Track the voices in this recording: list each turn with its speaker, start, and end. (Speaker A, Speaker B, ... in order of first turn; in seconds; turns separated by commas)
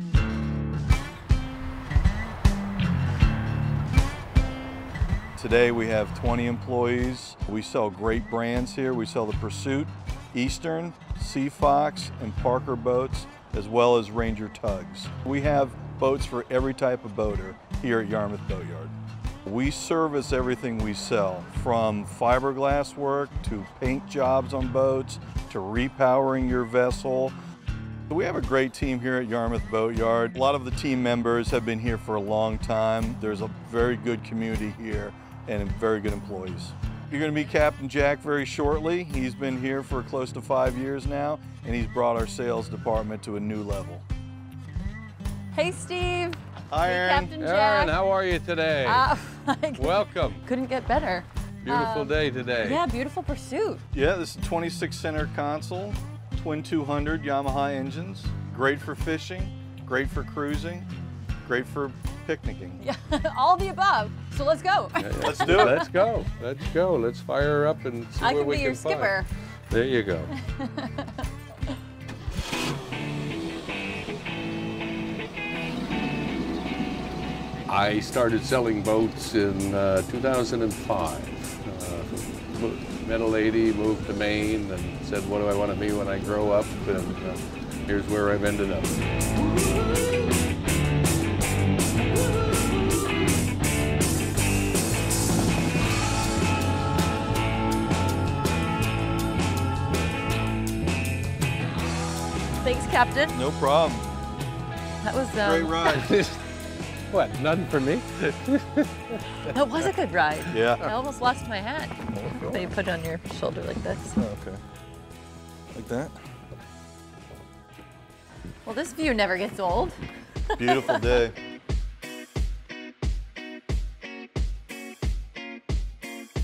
Speaker A: 5.3-18.9, Speaker A: 19.4-27.3, Speaker A: 28.1-44.0, Speaker B: 45.5-47.9, Speaker A: 46.7-47.4, Speaker C: 47.4-49.1, Speaker B: 48.8-53.8, Speaker C: 49.7-50.4, Speaker C: 51.6-52.8, Speaker A: 53.9-60.9, Speaker A: 61.4-62.8, Speaker B: 62.8-66.0, Speaker C: 65.0-70.3, Speaker A: 65.2-65.8, Speaker B: 68.2-69.3, Speaker B: 70.3-71.2, Speaker C: 77.7-89.0, Speaker B: 102.6-103.3, Speaker A: 103.3-104.1, Speaker B: 105.0-106.0, Speaker A: 105.4-106.1, Speaker C: 105.9-106.4, Speaker C: 107.1-109.2, Speaker B: 109.5-114.2, Speaker A: 110.5-110.8, Speaker A: 112.1-112.7, Speaker A: 114.2-114.6, Speaker A: 115.7-116.2, Speaker B: 118.6-120.0, Speaker B: 120.5-121.2, Speaker A: 120.6-121.3